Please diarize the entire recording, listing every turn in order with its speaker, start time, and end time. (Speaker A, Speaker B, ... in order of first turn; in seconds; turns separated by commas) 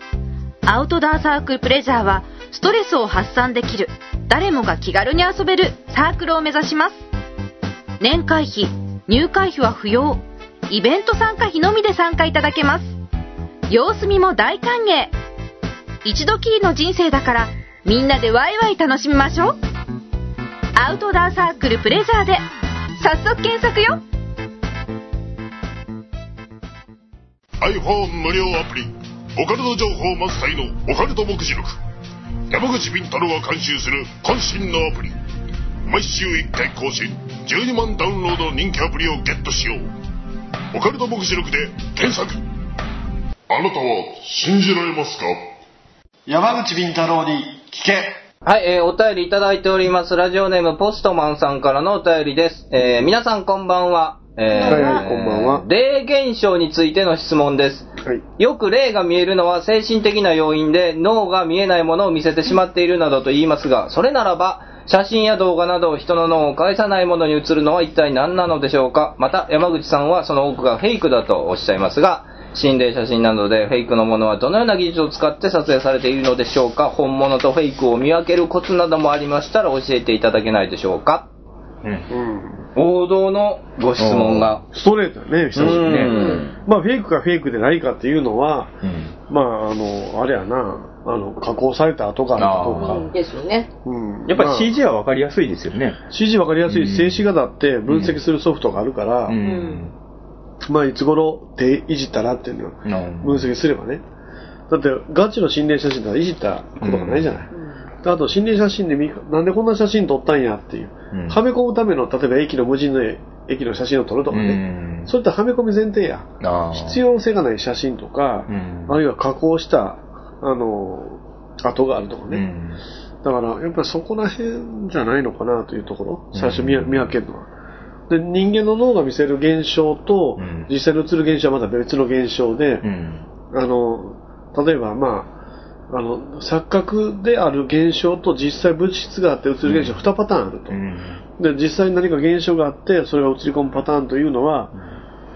Speaker A: 0.7-7.1, Speaker A: 8.0-13.0, Speaker A: 13.7-15.1, Speaker A: 16.0-19.6, Speaker A: 20.8-22.4, Speaker A: 23.0-24.0, Speaker B: 27.6-31.8, Speaker B: 32.5-35.1, Speaker B: 35.9-39.8, Speaker B: 40.7-42.4, Speaker B: 43.5-45.4, Speaker C: 46.3-48.2, Speaker D: 48.4-81.3, Speaker E: 54.5-55.0, Speaker C: 54.6-55.6, Speaker C: 82.1-82.7, Speaker D: 82.8-84.6, Speaker F: 84.0-84.5, Speaker C: 84.7-88.8, Speaker D: 85.5-86.6, Speaker F: 85.6-86.2, Speaker E: 86.1-86.4, Speaker F: 88.8-89.1, Speaker C: 89.3-93.0, Speaker F: 92.4-93.1, Speaker E: 92.8-93.7, Speaker C: 93.8-94.8, Speaker F: 94.3-96.0, Speaker C: 96.1-99.4, Speaker F: 96.7-97.2, Speaker F: 97.9-98.2, Speaker F: 99.3-99.9, Speaker E: 99.4-99.8, Speaker C: 100.6-104.0, Speaker F: 102.9-103.5, Speaker C: 104.7-107.5, Speaker F: 106.8-107.4, Speaker E: 107.5-107.8, Speaker C: 108.0-122.5, Speaker F: 111.1-111.4, Speaker F: 114.3-115.1, Speaker F: 116.4-117.0, Speaker F: 118.5-119.0, Speaker F: 122.3-122.8, Speaker C: 123.2-127.5, Speaker F: 126.3-127.1, Speaker C: 128.1-132.9, Speaker F: 130.4-130.7, Speaker F: 132.8-133.2, Speaker C: 133.5-135.3, Speaker C: 135.9-140.8, Speaker F: 139.7-140.0, Speaker F: 140.7-141.2, Speaker C: 141.4-144.7